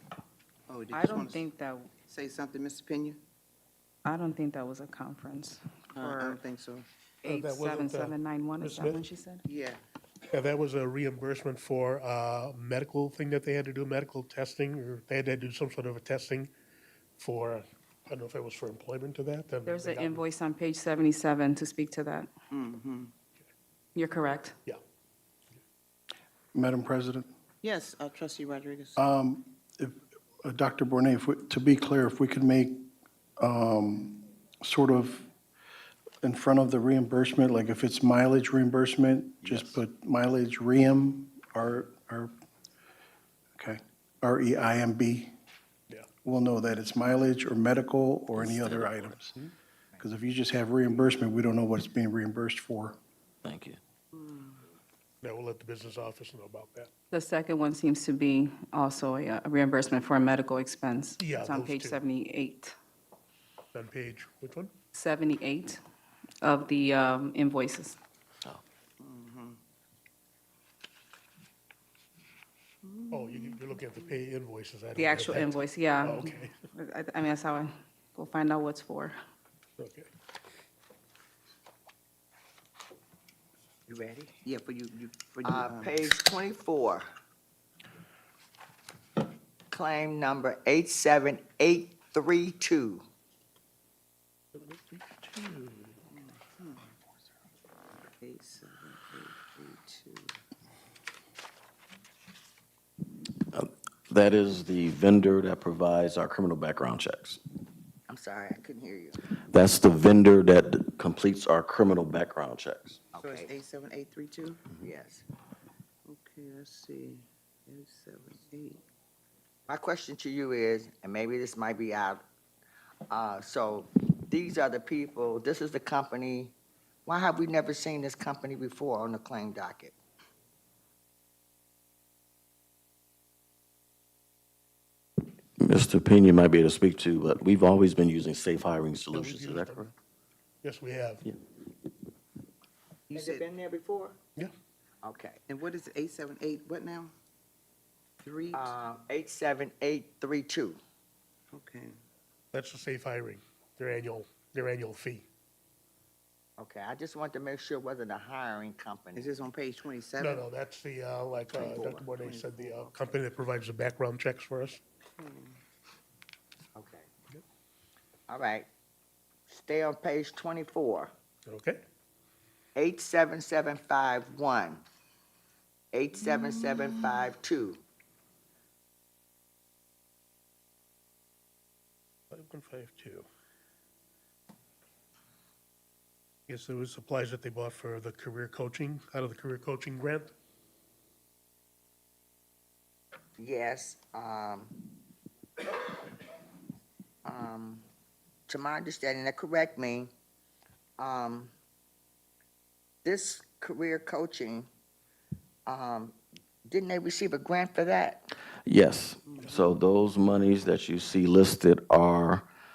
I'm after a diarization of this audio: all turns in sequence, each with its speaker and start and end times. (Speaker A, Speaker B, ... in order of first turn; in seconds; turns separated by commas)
Speaker A: 0.7-1.5, Speaker B: 0.9-1.9, Speaker A: 2.0-3.2, Speaker B: 4.0-6.3, Speaker A: 5.9-6.9, Speaker B: 7.2-9.5, Speaker C: 7.2-9.0, Speaker A: 9.4-9.8, Speaker C: 10.3-16.5, Speaker C: 17.2-20.2, Speaker B: 19.6-22.3, Speaker A: 22.5-23.1, Speaker B: 23.9-24.6, Speaker D: 26.5-27.3, Speaker A: 27.6-29.0, Speaker D: 28.9-35.3, Speaker D: 36.2-42.3, Speaker E: 39.4-39.8, Speaker D: 43.6-45.3, Speaker D: 46.2-49.4, Speaker E: 48.3-49.1, Speaker D: 50.0-53.0, Speaker E: 53.4-53.8, Speaker A: 54.1-54.6, Speaker C: 55.2-56.9, Speaker B: 57.1-62.7, Speaker C: 61.2-62.0, Speaker C: 63.7-64.7, Speaker B: 64.9-65.8, Speaker B: 66.4-68.0, Speaker A: 69.0-69.6, Speaker A: 72.8-74.1, Speaker C: 73.1-76.5, Speaker B: 75.0-79.2, Speaker C: 79.8-80.1, Speaker F: 83.9-84.4, Speaker A: 84.4-86.1, Speaker F: 85.4-87.1, Speaker F: 89.7-93.0, Speaker C: 94.5-96.0, Speaker A: 96.1-96.9, Speaker A: 98.2-100.4, Speaker E: 103.3-107.4, Speaker F: 108.1-109.2, Speaker E: 109.3-113.0, Speaker F: 113.1-113.6, Speaker A: 113.2-114.6, Speaker F: 114.8-115.3, Speaker A: 116.1-118.8, Speaker F: 119.7-122.2, Speaker F: 123.1-126.5, Speaker F: 127.1-129.9, Speaker E: 135.6-139.9, Speaker C: 139.1-139.9, Speaker C: 140.6-141.2, Speaker A: 143.1-143.4, Speaker F: 143.1-144.2, Speaker F: 145.0-145.4, Speaker A: 145.5-147.1, Speaker A: 148.2-148.8, Speaker F: 148.5-150.8, Speaker A: 151.5-152.0, Speaker C: 152.5-155.2, Speaker F: 156.6-159.3, Speaker A: 159.2-160.4, Speaker C: 160.2-164.8, Speaker F: 161.5-162.1, Speaker A: 162.2-162.9, Speaker A: 165.2-165.6, Speaker F: 166.8-167.1, Speaker F: 168.3-168.7, Speaker F: 169.5-171.1, Speaker C: 171.5-171.8, Speaker F: 172.8-174.8, Speaker F: 175.9-177.8, Speaker C: 182.3-183.2, Speaker C: 186.5-190.3, Speaker F: 193.4-194.8, Speaker F: 197.2-197.8, Speaker F: 198.5-200.1, Speaker F: 201.0-201.5, Speaker F: 203.1-204.7, Speaker F: 205.7-208.3, Speaker E: 208.7-212.5, Speaker A: 209.2-209.8